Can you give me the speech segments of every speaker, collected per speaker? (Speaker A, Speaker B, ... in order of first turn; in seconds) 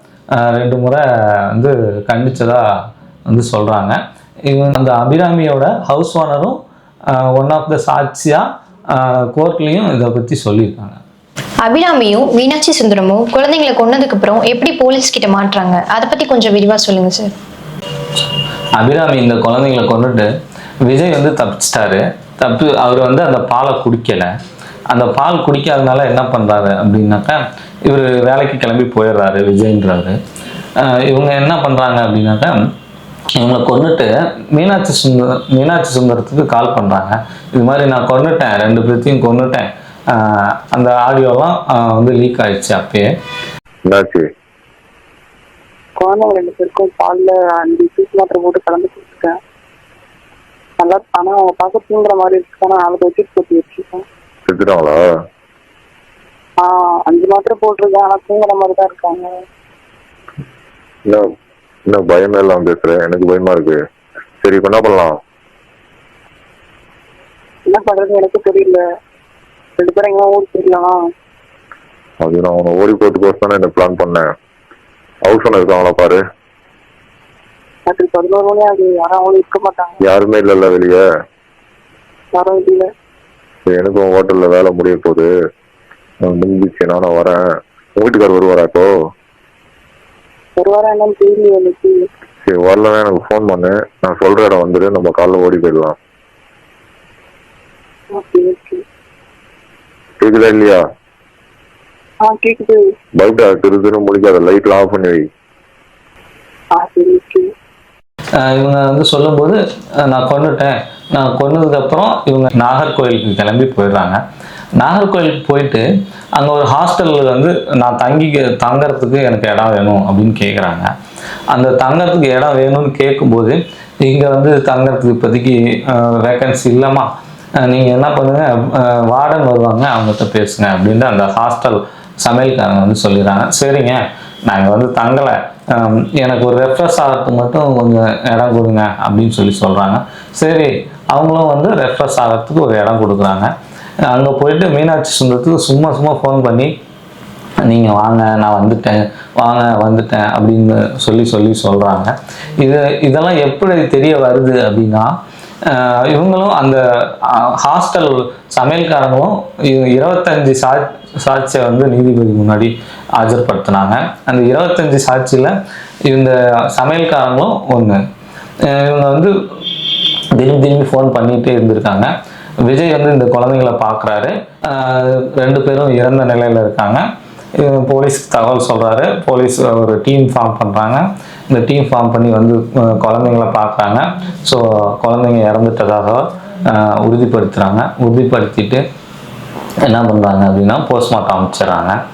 Speaker A: 0.3-2.6, 3.3-11.0, 18.8-20.3, 20.8-24.3, 24.9-30.2, 30.8-32.6, 33.3-43.1, 108.3-114.2, 114.8-120.9, 121.5-143.5, 144.0-146.7, 147.6-155.1, 155.6-165.6, 166.1-168.0, 168.6-169.3, 170.3-172.1, 172.6-177.0, 177.6-188.8, 189.8-192.0
Speaker B: 11.6-17.3
Speaker C: 43.9-44.3, 54.5-55.0, 61.9-63.8, 64.4-65.2, 72.2-74.3, 75.2-76.2, 80.0-81.0, 83.7-85.3, 86.2-87.4, 88.0-88.9, 92.4-96.0, 100.2-100.8, 103.2-105.3
Speaker D: 46.0-49.4, 50.8-54.0, 56.6-59.3, 67.7-68.8, 69.8-71.0, 77.9-80.0, 82.3-82.9, 90.6-92.0, 98.1-98.8, 102.2-102.8, 106.7-107.5